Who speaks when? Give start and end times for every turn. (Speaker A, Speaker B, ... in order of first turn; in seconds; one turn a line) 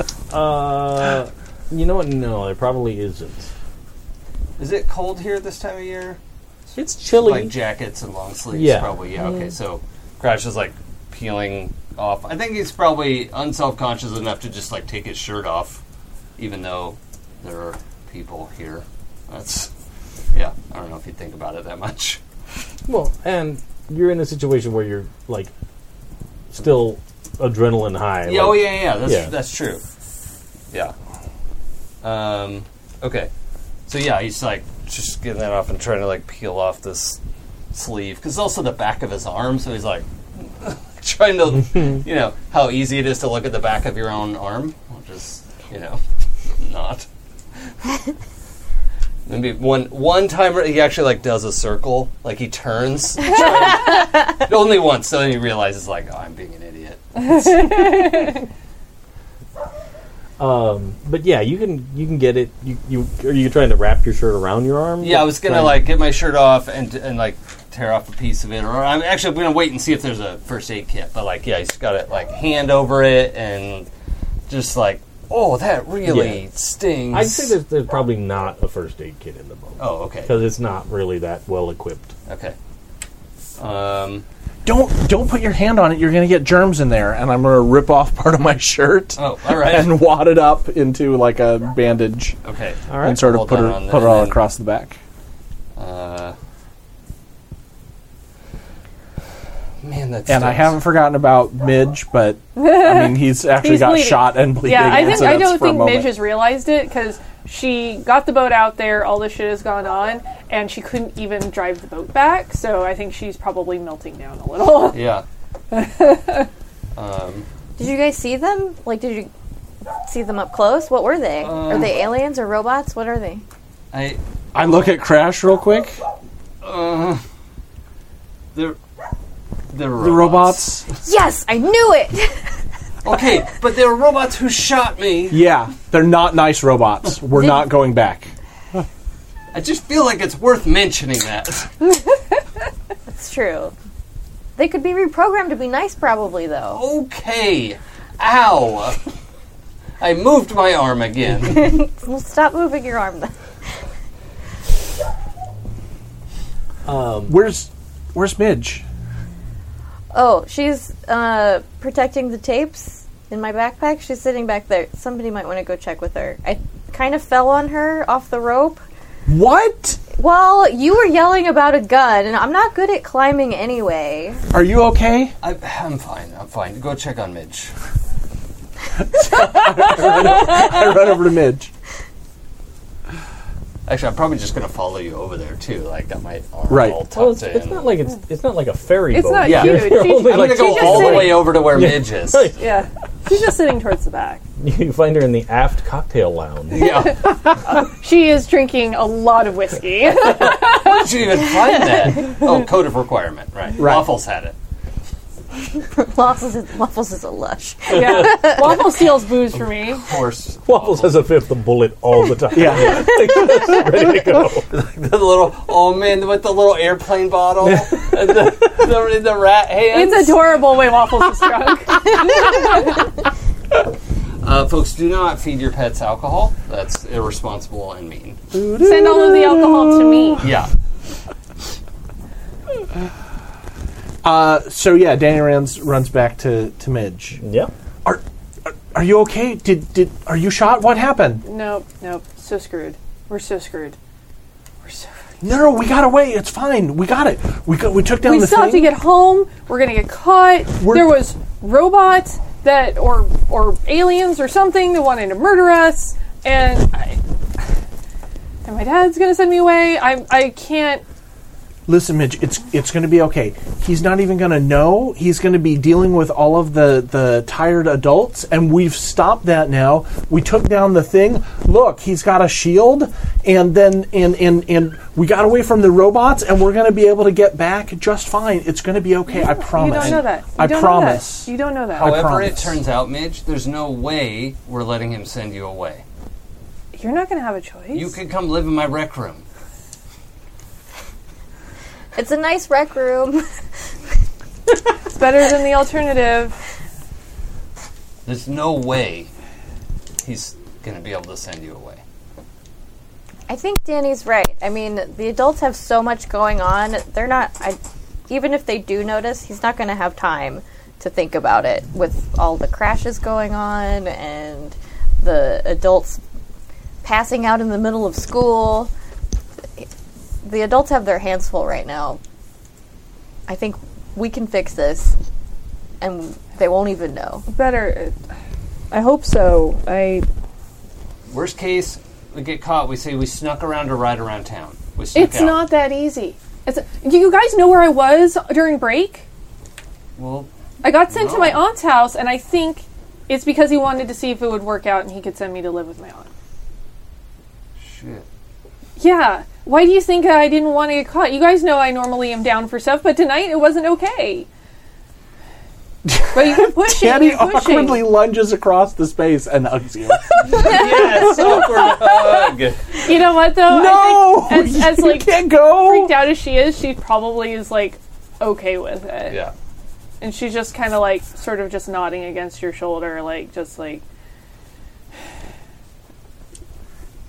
Speaker A: 0.3-3.5
Speaker B: 4.6-6.2
Speaker A: 6.7-7.5
Speaker B: 7.1-15.8
Speaker A: 8.5-9.0
Speaker B: 16.4-19.7
Speaker B: 20.3-22.2
Speaker A: 22.9-25.5
Speaker A: 26.5-29.3
Speaker B: 28.2-29.8
Speaker B: 32.0-33.3
Speaker B: 33.9-37.2
Speaker B: 37.7-46.0
Speaker B: 46.6-47.1
Speaker B: 49.2-58.1
Speaker C: 53.3-53.8
Speaker C: 57.2-58.4
Speaker A: 60.4-65.8
Speaker B: 65.0-73.9
Speaker B: 74.5-77.5
Speaker A: 76.0-76.4
Speaker A: 77.1-82.1
Speaker B: 79.8-80.4
Speaker B: 82.3-82.5
Speaker B: 83.6-84.2
Speaker D: 84.6-92.4
Speaker B: 89.2-90.0
Speaker B: 92.4-94.4
Speaker A: 92.9-93.2
Speaker D: 93.0-95.0
Speaker B: 95.8-96.3
Speaker B: 99.8-100.8
Speaker D: 100.3-106.1
Speaker C: 102.6-115.0
Speaker B: 114.9-115.2
Speaker C: 115.7-116.5
Speaker B: 116.9-117.5
Speaker E: 117.8-119.3
Speaker E: 120.0-123.4
Speaker B: 121.4-122.1
Speaker B: 123.9-124.9
Speaker D: 124.5-126.0
Speaker B: 126.6-127.2
Speaker B: 129.7-130.8
Speaker D: 130.0-130.8
Speaker E: 131.0-132.4
Speaker B: 133.0-135.4
Speaker D: 135.3-138.3
Speaker E: 137.3-137.6
Speaker B: 139.5-141.7
Speaker E: 143.1-143.7
Speaker E: 144.6-146.8
Speaker B: 146.7-149.0
Speaker B: 150.0-151.8
Speaker E: 151.4-153.3
Speaker A: 156.8-157.4
Speaker D: 157.3-158.8
Speaker E: 160.1-168.8
Speaker D: 169.3-170.0
Speaker E: 170.2-174.4
Speaker D: 174.5-175.3
Speaker B: 175.4-177.7
Speaker D: 179.0-181.7
Speaker B: 183.8-187.9
Speaker D: 186.7-187.0
Speaker A: 187.1-192.6
Speaker C: 189.1-191.6
Speaker B: 189.4-192.5
Speaker C: 192.6-194.4
Speaker A: 194.6-197.0
Speaker B: 196.7-197.2
Speaker C: 196.8-201.8
Speaker B: 200.5-204.5
Speaker D: 203.8-204.1
Speaker E: 205.9-208.9
Speaker C: 207.9-210.2
Speaker A: 208.0-208.4
Speaker B: 209.6-211.2
Speaker A: 210.7-214.7
Speaker D: 212.5-213.4
Speaker B: 214.7-220.6
Speaker A: 217.6-218.7
Speaker C: 219.9-222.9
Speaker B: 224.4-228.4
Speaker A: 228.5-230.3
Speaker D: 228.6-229.2
Speaker C: 228.8-230.4
Speaker B: 230.4-230.7
Speaker D: 234.2-237.4
Speaker A: 237.4-237.7
Speaker D: 238.0-241.4
Speaker C: 241.4-244.0
Speaker C: 244.8-245.4
Speaker D: 245.4-248.9
Speaker C: 248.2-257.2
Speaker D: 250.8-251.1
Speaker C: 258.6-261.0
Speaker D: 261.9-282.8
Speaker C: 279.3-282.3
Speaker B: 279.8-280.3
Speaker B: 281.9-286.0
Speaker C: 286.9-288.1
Speaker B: 287.9-289.4
Speaker E: 292.1-293.4
Speaker C: 295.1-296.6
Speaker B: 298.2-299.3
Speaker B: 300.2-302.0
Speaker E: 303.5-307.8
Speaker E: 308.3-316.2
Speaker E: 317.0-318.9
Speaker E: 320.4-322.2
Speaker E: 323.5-325.2
Speaker E: 326.0-327.4
Speaker C: 327.5-328.2
Speaker C: 328.9-330.2
Speaker B: 331.3-335.6
Speaker C: 335.1-339.2
Speaker B: 340.2-340.5
Speaker C: 340.8-346.3
Speaker B: 341.1-341.6
Speaker B: 347.8-348.2
Speaker C: 349.0-354.5
Speaker D: 356.0-361.5
Speaker C: 356.3-358.1
Speaker B: 360.5-362.9
Speaker C: 363.0-369.4
Speaker D: 363.6-366.2
Speaker B: 369.3-369.5
Speaker C: 370.2-374.0